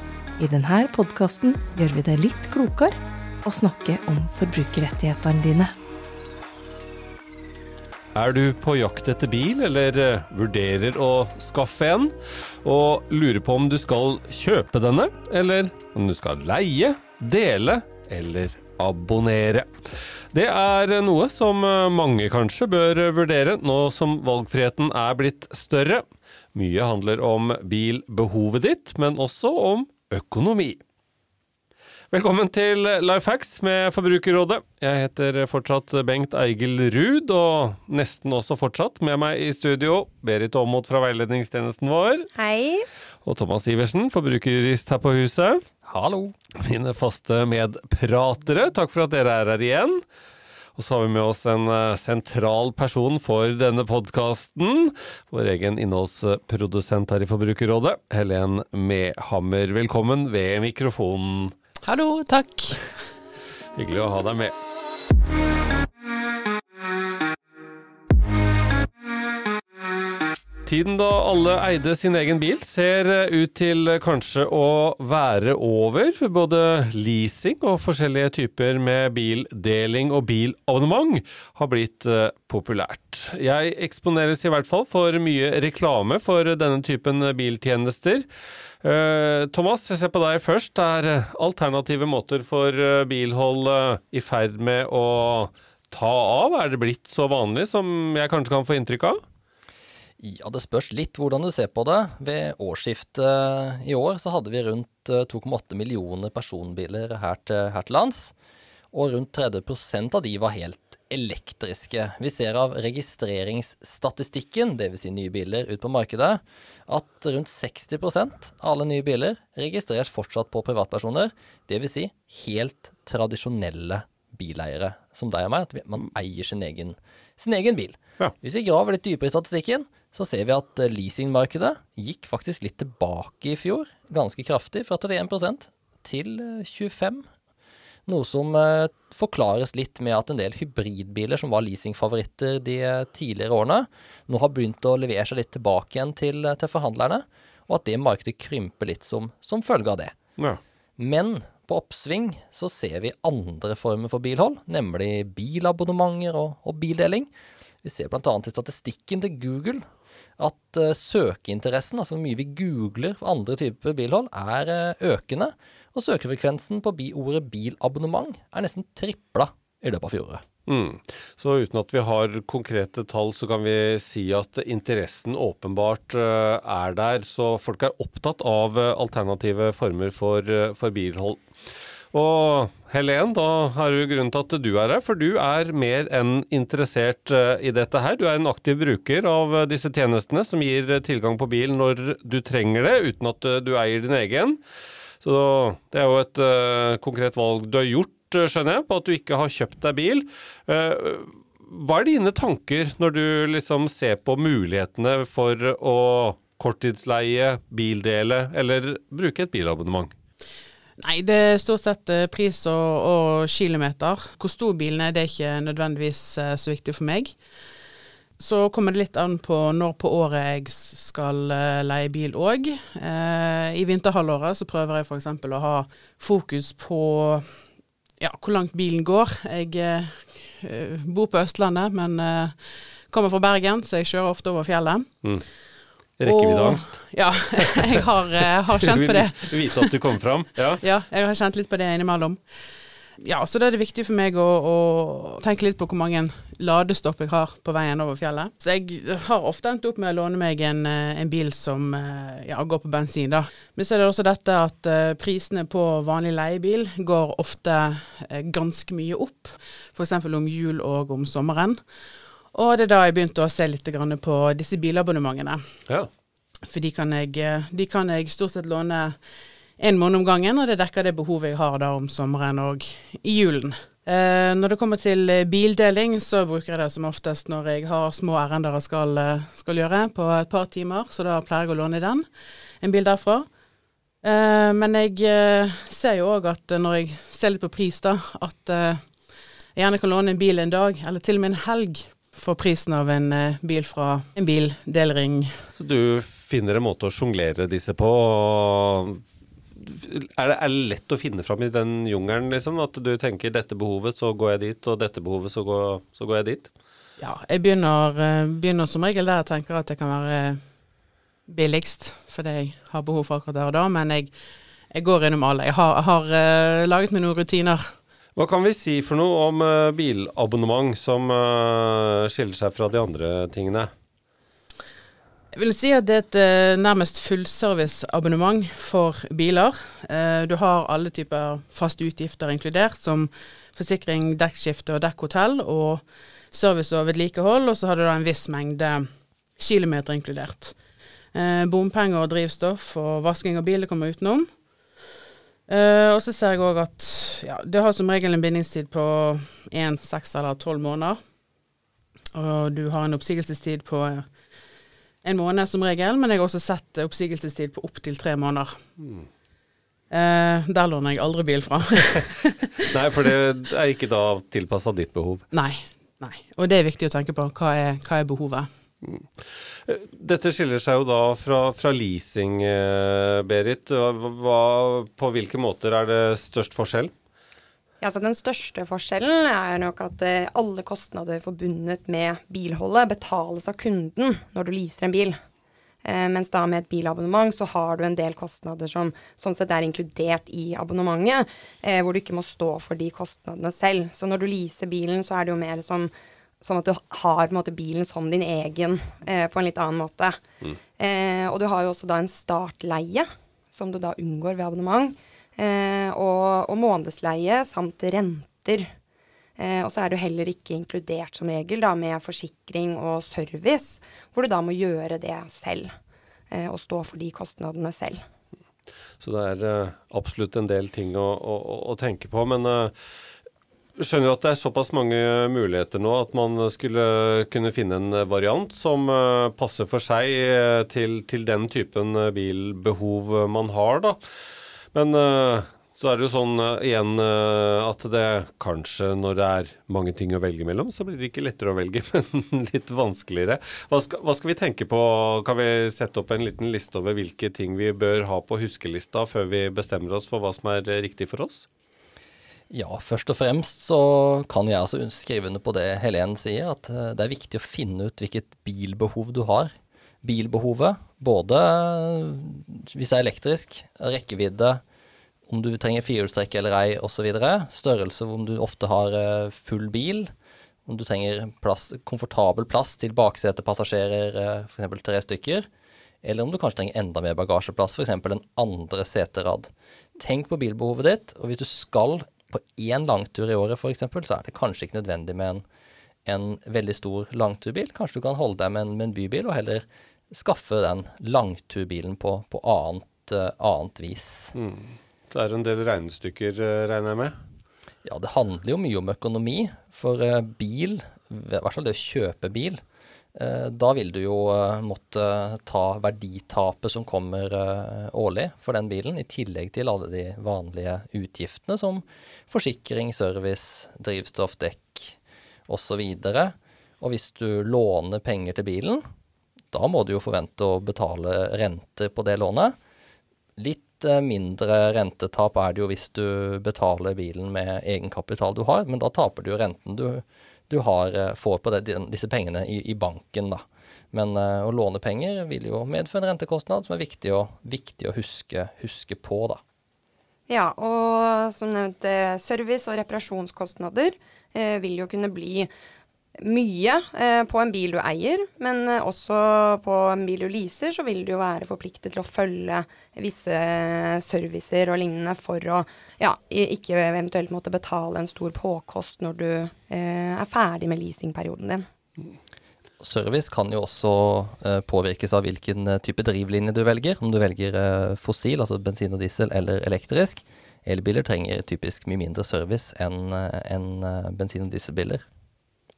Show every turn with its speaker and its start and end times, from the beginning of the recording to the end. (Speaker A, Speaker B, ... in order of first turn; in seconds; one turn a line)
Speaker A: 0.4-5.7
Speaker B: 8.1-19.7
Speaker B: 20.3-30.8
Speaker B: 32.1-42.3
Speaker C: 42.3-42.9
Speaker B: 43.2-45.6
Speaker D: 45.8-46.4
Speaker B: 46.6-50.0
Speaker B: 50.8-61.5
Speaker E: 61.8-62.9
Speaker B: 63.8-64.5
Speaker B: 70.7-88.2
Speaker B: 88.8-99.2
Speaker D: 100.2-108.3
Speaker D: 108.9-137.3
Speaker D: 138.1-150.2
Speaker D: 151.0-157.3
Speaker D: 157.8-159.8
Speaker D: 160.4-170.4
Speaker B: 170.7-181.5
Speaker B: 182.1-194.6
Speaker B: 195.2-210.1
Speaker E: 211.0-217.3
Speaker E: 218.4-227.7
Speaker E: 228.2-235.3
Speaker B: 235.2-235.5
Speaker B: 236.2-237.6
Speaker E: 236.2-239.8
Speaker B: 238.8-240.8
Speaker E: 240.8-242.4
Speaker E: 243.2-261.8
Speaker E: 262.5-265.6
Speaker E: 266.7-269.2
Speaker E: 269.8-282.3
Speaker E: 282.8-283.5
Speaker E: 284.2-295.5
Speaker B: 295.8-299.2
Speaker B: 299.8-306.7
Speaker E: 307.2-310.6
Speaker E: 311.5-314.3
Speaker E: 314.9-317.9
Speaker B: 318.4-323.9
Speaker E: 325.5-340.8
Speaker E: 341.3-344.6
Speaker E: 345.7-351.2
Speaker E: 352.3-354.3
Speaker E: 355.2-358.8
Speaker B: 359.0-359.3
Speaker E: 360.1-362.6
Speaker B: 362.9-365.5
Speaker E: 365.5-368.7
Speaker B: 369.0-369.3
Speaker B: 369.9-377.1
Speaker C: 378.0-385.4
Speaker C: 386.0-400.4
Speaker C: 401.0-408.9
Speaker C: 409.6-415.9
Speaker C: 416.5-418.2
Speaker B: 419.2-422.9
Speaker B: 424.0-434.2
Speaker B: 434.9-451.7
Speaker D: 452.7-459.7
Speaker D: 460.2-464.8
Speaker D: 465.5-470.3
Speaker D: 470.9-475.7
Speaker D: 476.2-485.6
Speaker D: 486.3-494.5
Speaker B: 494.6-497.4
Speaker D: 498.0-502.8
Speaker D: 503.4-515.2
Speaker D: 515.7-519.0
Speaker D: 519.7-522.8
Speaker D: 523.6-539.6
Speaker C: 540.5-545.7
Speaker C: 546.4-561.8
Speaker D: 563.0-575.2